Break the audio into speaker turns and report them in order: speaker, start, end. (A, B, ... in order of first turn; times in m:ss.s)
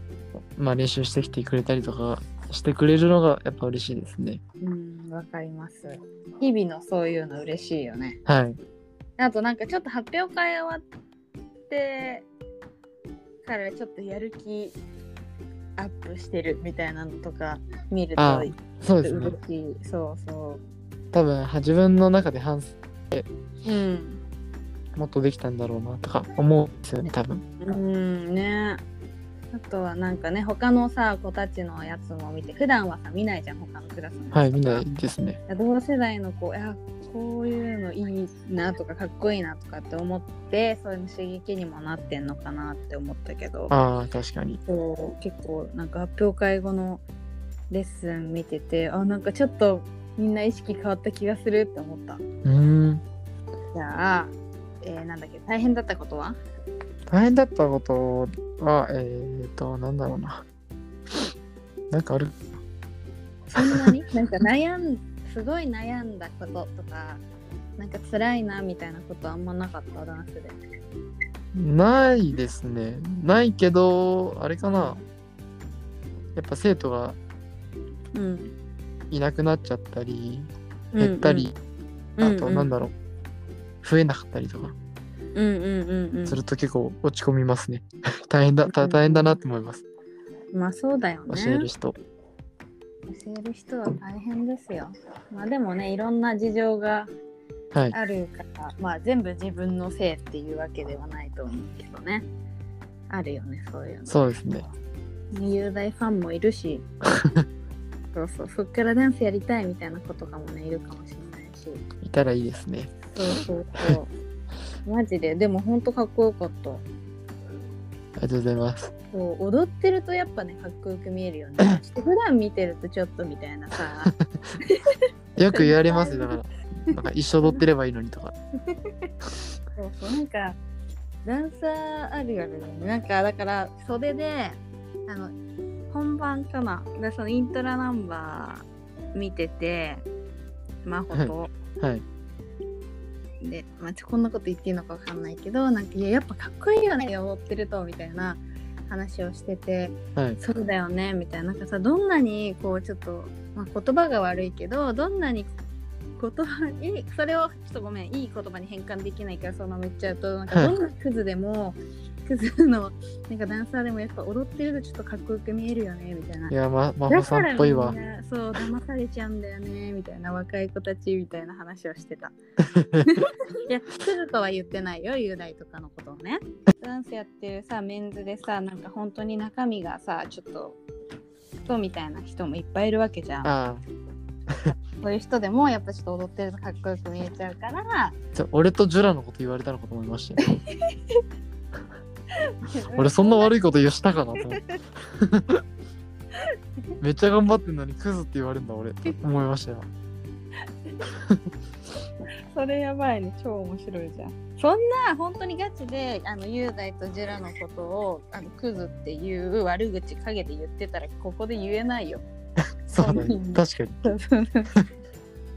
0:00.6-0:04.4 A
0:04.6-0:08.2 B
0:08.2-0:08.6 A
0:09.2-0:10.8 B
0:11.7-0:12.2 B
0:13.4-0:14.8 B
0:15.8-0:20.6 B
0:18.2-0:19.3 A
0:21.1-0:23.2 A
0:23.6-0:24.2 B
0:25.0-0:27.4 A
0:27.6-0:28.8 B
0:29.5-0:34.8 B
0:34.3-0:35.4 A
0:35.5-0:43.7 B
0:43.7-0:44.6 A
0:44.6-0:47.0 B
0:47.7-0:52.2 B
0:52.4-0:53.0 A
0:53.7-0:56.4 B
0:57.1-1:00.4 A
1:01.9-1:02.4 A
1:03.5-1:07.2 B
1:03.6-1:03.9 A
1:07.8-1:10.6 B
1:11.5-1:15.0 A
1:14.6-1:15.0 B
1:16.4-1:17.2 A
1:18.1-1:18.5 B
1:19.1-1:21.5 A
1:20.9-1:21.5 B
1:22.2-1:22.7 B
1:22.2-1:22.9 A
1:23.8-1:24.7 A
1:25.3-1:26.4 B
1:26.2-1:29.8 A
1:28.6-1:29.4 B
1:30.5-1:31.7 B
1:31.3-1:31.9 A
1:33.1-1:37.1 B
1:37.9-1:42.2 B
1:43.1-1:44.2 B
1:44.1-1:44.7 A
1:45.3-1:46.8 B
1:47.1-1:47.4 A
1:48.1-1:51.8 B
1:52.0-1:52.9 A
1:53.1-1:54.1 B
1:54.8-1:56.8 B
1:58.2-1:58.9 A
1:59.1-2:05.0 B
2:05.4-2:08.3 A
2:05.5-2:06.4 B
2:08.7-2:09.1 B
2:09.8-2:10.6 B
2:11.2-2:15.3 B
2:15.9-2:20.0 B
2:20.8-2:21.5 B
2:21.1-2:22.0 A
2:23.4-2:35.5 B
2:36.2-2:46.5 B
2:46.5-2:48.0 A
2:47.1-2:52.3 B
2:52.7-2:53.0 A
2:53.0-3:00.8 B
3:01.6-3:03.5 B
3:03.4-3:03.8 A
3:05.0-3:08.1 B
3:08.3-3:10.4 A
3:10.4-3:11.2 B
3:12.4-3:13.5 B
3:12.9-3:15.6 A
3:14.4-3:14.8 B
3:17.0-3:19.9 A
3:21.0-3:21.4 A
3:22.5-3:32.2 B
3:32.9-3:34.0 A
3:33.0-3:34.7 B